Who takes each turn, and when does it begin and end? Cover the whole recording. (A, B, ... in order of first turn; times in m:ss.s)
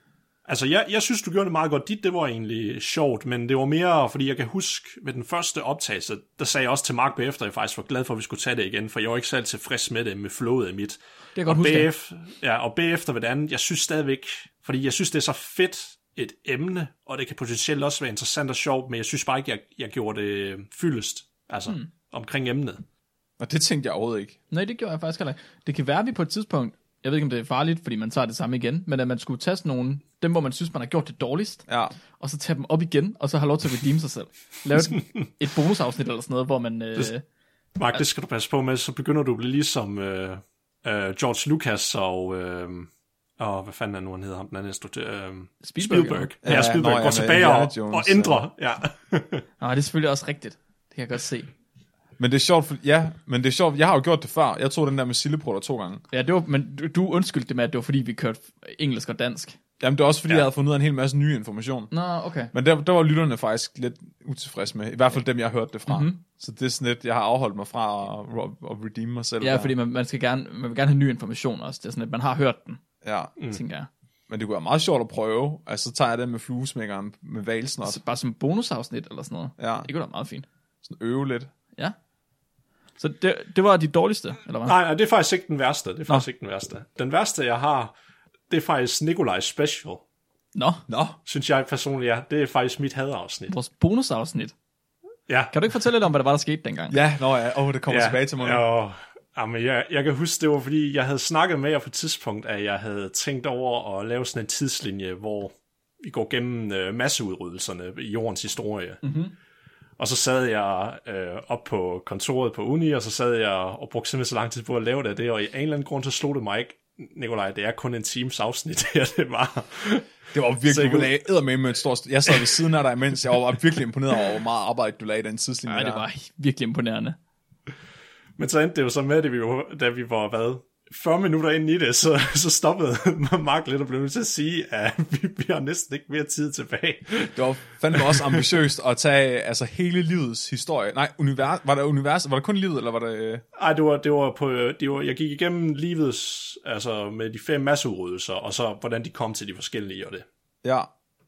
0:00.5-0:22.8 A
0:11.4-0:11.9 B
0:23.4-0:24.4 C
0:24.5-0:37.2 B
0:31.7-0:32.0 C
0:37.8-0:49.4 A
0:45.6-0:46.3 B
0:46.4-0:48.4 C
0:49.6-0:51.5 B
0:52.2-0:56.0 C
0:56.1-0:59.6 B
0:59.8-1:01.9 C
1:01.9-1:02.5 B
1:02.5-1:09.7 C
1:05.9-1:06.2 B
1:09.4-1:12.8 B
1:13.0-1:13.3 C
1:13.5-1:13.9 B
1:14.3-1:18.0 C
1:17.8-1:20.4 B
1:19.6-1:19.9 C
1:20.8-1:21.5 C
1:23.0-1:24.8 B
1:24.6-1:27.9 A
1:28.5-1:30.0 A
1:30.6-1:30.8 B
1:30.9-1:31.2 C
1:31.3-1:33.5 A
1:33.5-1:34.5 B
1:35.3-1:35.5 A
1:35.5-1:37.0 B
1:36.9-1:38.6 C
1:37.9-1:49.0 A
1:49.0-1:49.3 B
1:50.0-2:00.1 A
2:00.3-2:06.0 C
2:00.7-2:01.1 A
2:05.7-2:07.2 B
2:08.4-2:17.4 A
2:17.3-2:23.4 C
2:17.9-2:18.4 A
2:23.6-2:30.2 A
2:30.6-2:30.9 C